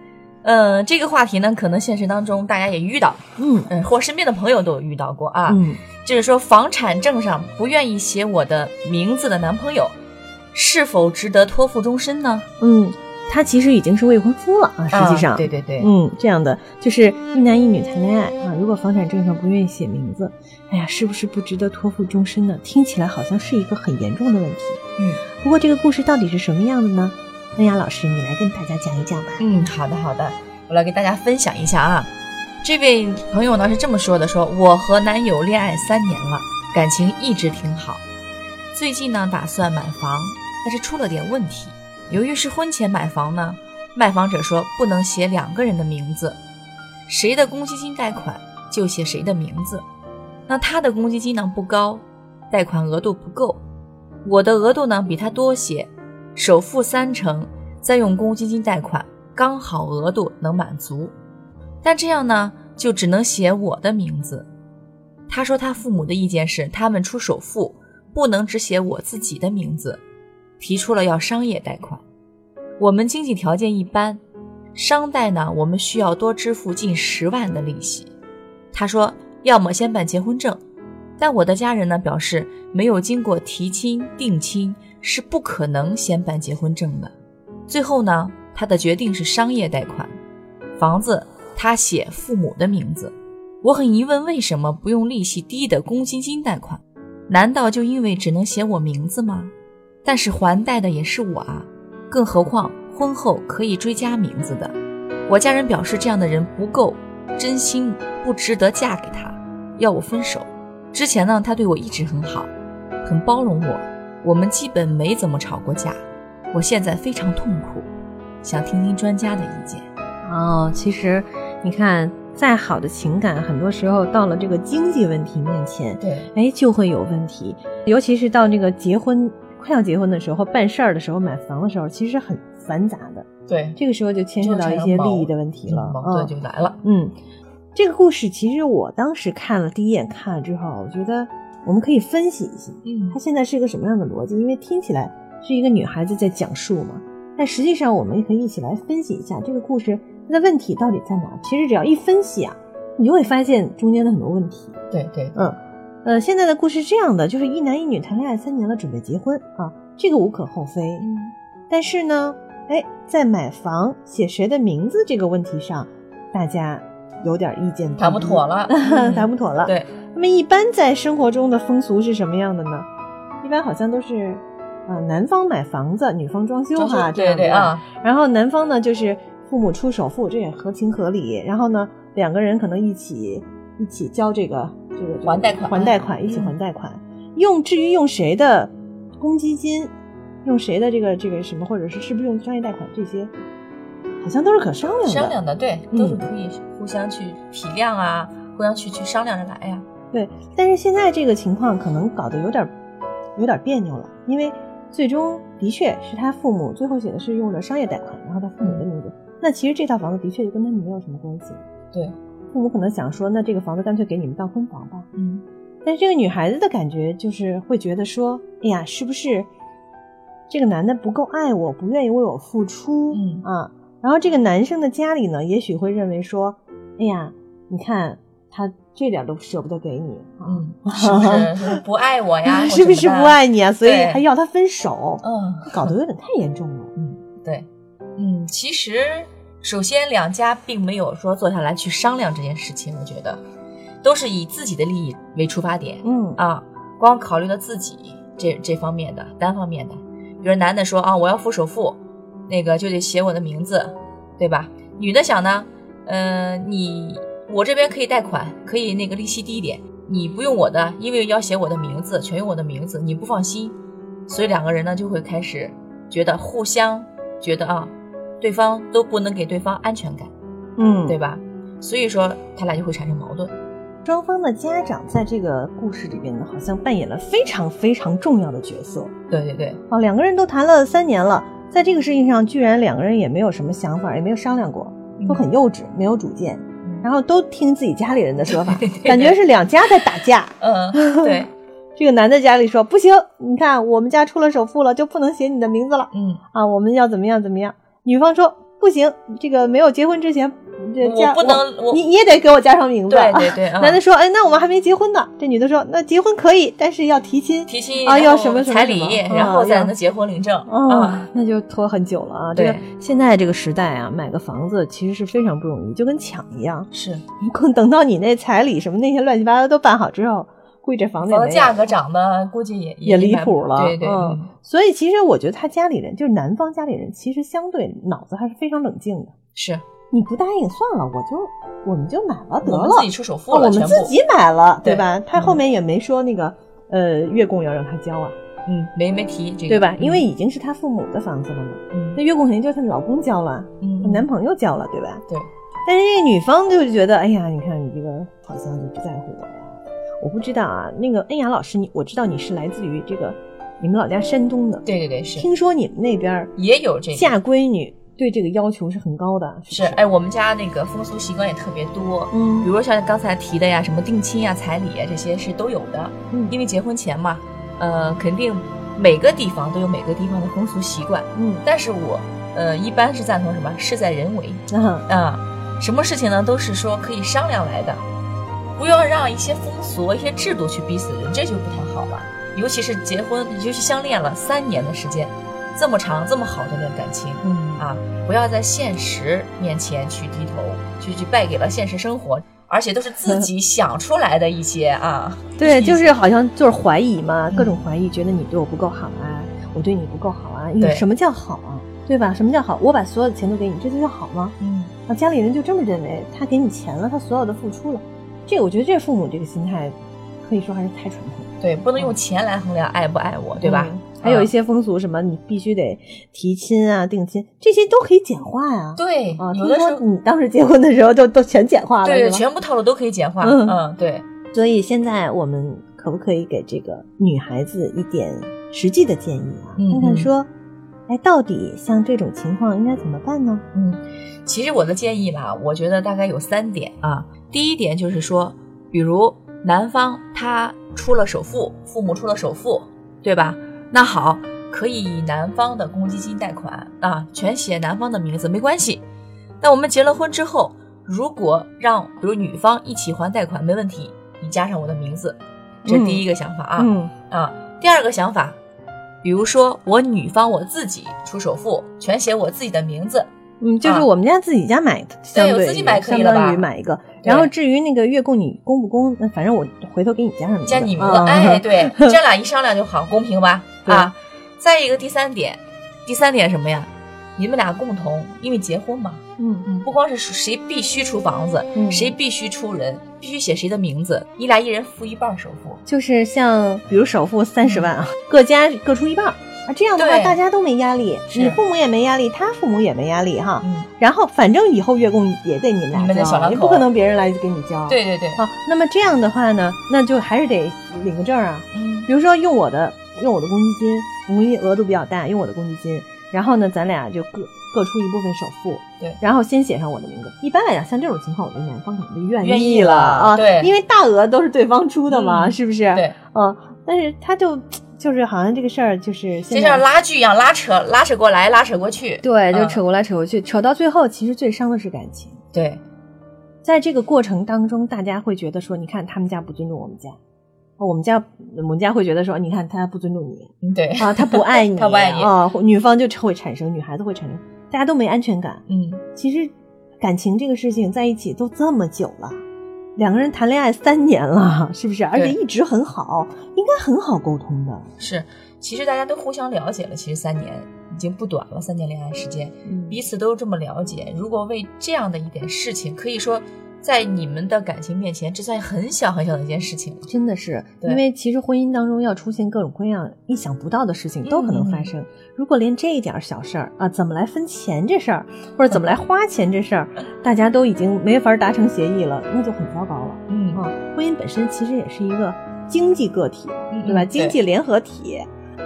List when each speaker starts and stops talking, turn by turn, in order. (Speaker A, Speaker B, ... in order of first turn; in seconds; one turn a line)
Speaker A: 0.4-9.9
Speaker B: 3.4-3.7
Speaker B: 5.5-5.8
Speaker A: 10.5-12.5
Speaker B: 12.6-24.8
Speaker A: 14.9-15.9
Speaker A: 25.0-25.2
Speaker B: 25.3-29.4
Speaker A: 29.4-32.1
Speaker A: 32.6-38.0
Speaker A: 38.7-46.4
Speaker A: 47.1-49.8
Speaker A: 50.5-53.6
Speaker A: 54.2-61.1
Speaker A: 61.8-64.5
Speaker A: 65.3-70.0
Speaker A: 70.6-72.0
Speaker A: 72.8-74.2
Speaker A: 74.7-78.1
Speaker A: 78.7-80.6
Speaker A: 81.2-87.1
Speaker A: 87.7-90.1
Speaker A: 90.8-99.5
Speaker A: 100.0-104.8
Speaker A: 105.3-112.5
Speaker A: 113.0-116.0
Speaker A: 116.5-117.9
Speaker A: 118.4-119.8
Speaker B: 120.2-137.1
Speaker A: 126.0-126.3
Speaker A: 133.5-133.8
Speaker A: 134.4-136.8
Speaker B: 137.7-154.8
Speaker A: 142.8-143.2
Speaker A: 154.9-155.3
Speaker B: 155.3-161.1
Speaker A: 161.0-161.3
Speaker B: 161.7-172.9
Speaker A: 168.0-169.9
Speaker B: 173.4-189.9
Speaker A: 176.8-177.8
Speaker A: 185.2-186.5
Speaker B: 190.4-193.3
Speaker B: 194.2-195.4
Speaker A: 195.0-199.8
Speaker B: 195.9-196.3
Speaker B: 200.1-202.7
Speaker B: 203.3-211.6
Speaker B: 212.5-215.1
Speaker A: 215.1-215.4
Speaker B: 215.8-219.5
Speaker B: 220.5-231.8
Speaker A: 223.1-223.4
Speaker A: 230.4-234.2
Speaker B: 232.4-236.9
Speaker A: 235.2-235.9
Speaker A: 236.9-237.7
Speaker A: 238.2-243.4
Speaker A: 244.0-263.8
Speaker B: 246.0-246.4
Speaker A: 264.3-270.3
Speaker B: 270.8-271.2
Speaker A: 271.1-273.5
Speaker B: 274.0-279.1
Speaker A: 279.3-279.8
Speaker B: 279.9-309.9
Speaker A: 288.5-289.4
Speaker A: 290.6-291.5
Speaker A: 296.1-296.4
Speaker A: 301.0-302.0
Speaker A: 303.1-304.0
Speaker A: 307.7-311.2
Speaker B: 310.7-316.9
Speaker A: 312.5-312.8
Speaker A: 316.9-317.2
Speaker B: 317.4-321.9
Speaker A: 321.2-324.5
Speaker B: 323.0-329.3
Speaker A: 329.5-329.8
Speaker B: 330.1-338.4
Speaker A: 332.6-334.1
Speaker A: 334.8-335.6
Speaker A: 338.6-340.2
Speaker B: 339.7-345.2
Speaker A: 341.9-342.2
Speaker A: 343.8-344.3
Speaker B: 345.9-356.5
Speaker A: 354.9-355.5
Speaker A: 356.6-357.4
Speaker B: 357.1-360.0
Speaker A: 359.7-378.0
Speaker B: 362.3-362.7
Speaker B: 366.3-366.6
Speaker B: 371.3-371.6
Speaker B: 374.7-375.1
Speaker A: 378.8-396.1
Speaker B: 387.4-387.9
Speaker B: 395.6-412.1
Speaker A: 397.5-397.8
Speaker A: 404.6-404.9
Speaker A: 411.6-414.5
Speaker B: 413.6-422.4
Speaker A: 419.0-420.0
Speaker A: 422.0-424.2
Speaker B: 423.4-423.8
Speaker B: 424.5-430.5
Speaker A: 429.8-430.3
Speaker B: 431.1-433.6
Speaker A: 433.7-449.0
Speaker A: 449.6-458.6
Speaker B: 455.8-456.2
Speaker B: 456.8-457.1
Speaker A: 459.2-463.3
Speaker B: 463.6-472.2
Speaker A: 465.3-466.7
Speaker A: 467.2-467.5
Speaker A: 470.6-485.8
Speaker B: 473.8-474.1
Speaker B: 479.4-479.7
Speaker B: 481.7-482.1
Speaker B: 485.9-519.8
Speaker A: 487.6-487.9
Speaker A: 489.9-490.4
Speaker A: 491.3-491.6
Speaker A: 493.6-493.9
Speaker A: 495.9-496.9
Speaker A: 497.9-498.4
Speaker A: 501.7-502.1
Speaker A: 512.4-513.7
Speaker A: 515.1-516.1
Speaker A: 519.5-522.8
Speaker B: 522.2-525.4
Speaker A: 525.5-525.8
Speaker B: 526.6-530.2
Speaker B: 530.8-542.4
Speaker A: 533.6-535.3
Speaker A: 538.7-539.0
Speaker B: 543.0-547.9
Speaker A: 548.0-560.1
Speaker B: 552.6-553.0
Speaker B: 560.1-578.3
Speaker A: 564.2-564.9
Speaker A: 573.3-573.6
Speaker A: 576.7-577.4